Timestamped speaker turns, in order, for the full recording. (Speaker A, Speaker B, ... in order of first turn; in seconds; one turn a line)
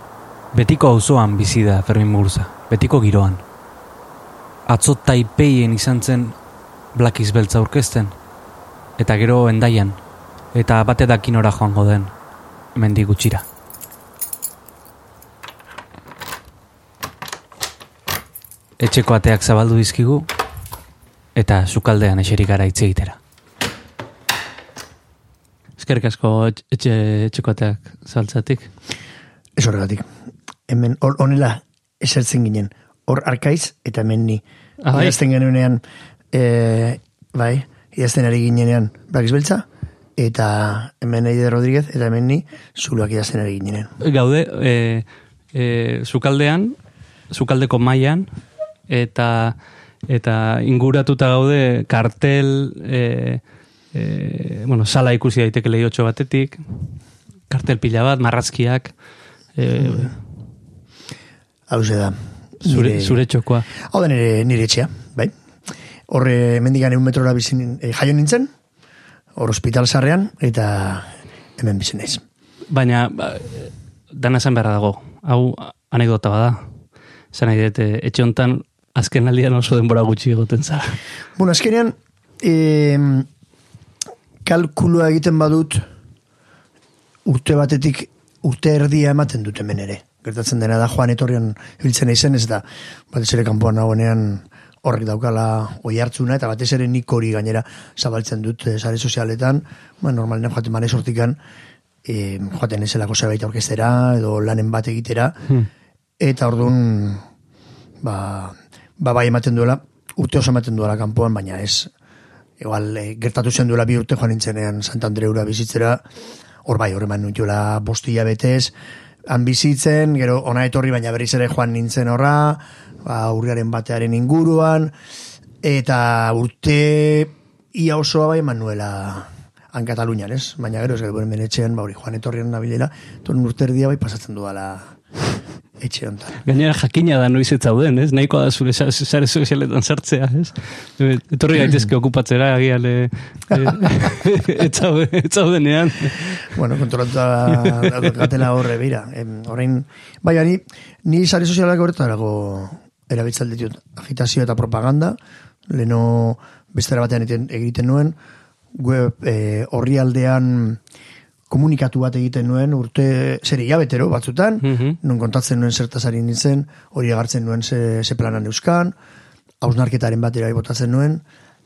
Speaker A: 0.5-3.4
Speaker A: 4.7-6.3
Speaker A: 6.9-8.1
Speaker A: 9.0-10.0
Speaker A: 10.5-12.1
Speaker A: 12.7-13.4
Speaker A: 18.8-20.3
Speaker A: 21.4-23.2
Speaker B: 25.8-28.7
Speaker C: 29.6-30.1
Speaker C: 30.7-35.8
Speaker B: 34.8-35.2
Speaker C: 36.3-39.6
Speaker C: 40.2-43.9
Speaker B: 44.0-46.8
Speaker B: 47.3-48.3
Speaker B: 48.9-49.6
Speaker B: 50.1-53.4
Speaker B: 53.9-56.9
Speaker B: 57.5-58.9
Speaker B: 59.6-60.2
Speaker C: 59.7-60.1
Speaker C: 61.7-63.2
Speaker B: 62.6-63.7
Speaker C: 63.8-65.3
Speaker C: 66.1-68.5
Speaker C: 69.4-72.2
Speaker B: 72.7-76.7
Speaker B: 77.3-81.0
Speaker C: 81.4-83.3
Speaker C: 84.5-85.8
Speaker C: 87.2-101.4
Speaker C: 102.0-105.4
Speaker C: 106.2-107.2
Speaker C: 108.0-111.9
Speaker C: 112.6-116.0
Speaker C: 116.6-118.7
Speaker C: 119.3-124.9
Speaker C: 125.6-135.0
Speaker C: 135.8-136.4
Speaker B: 136.4-146.5
Speaker C: 143.5-143.8
Speaker C: 146.4-155.2
Speaker B: 147.8-148.2
Speaker C: 155.7-158.2
Speaker C: 158.7-160.8
Speaker C: 161.5-168.9
Speaker B: 164.6-165.0
Speaker C: 169.6-171.2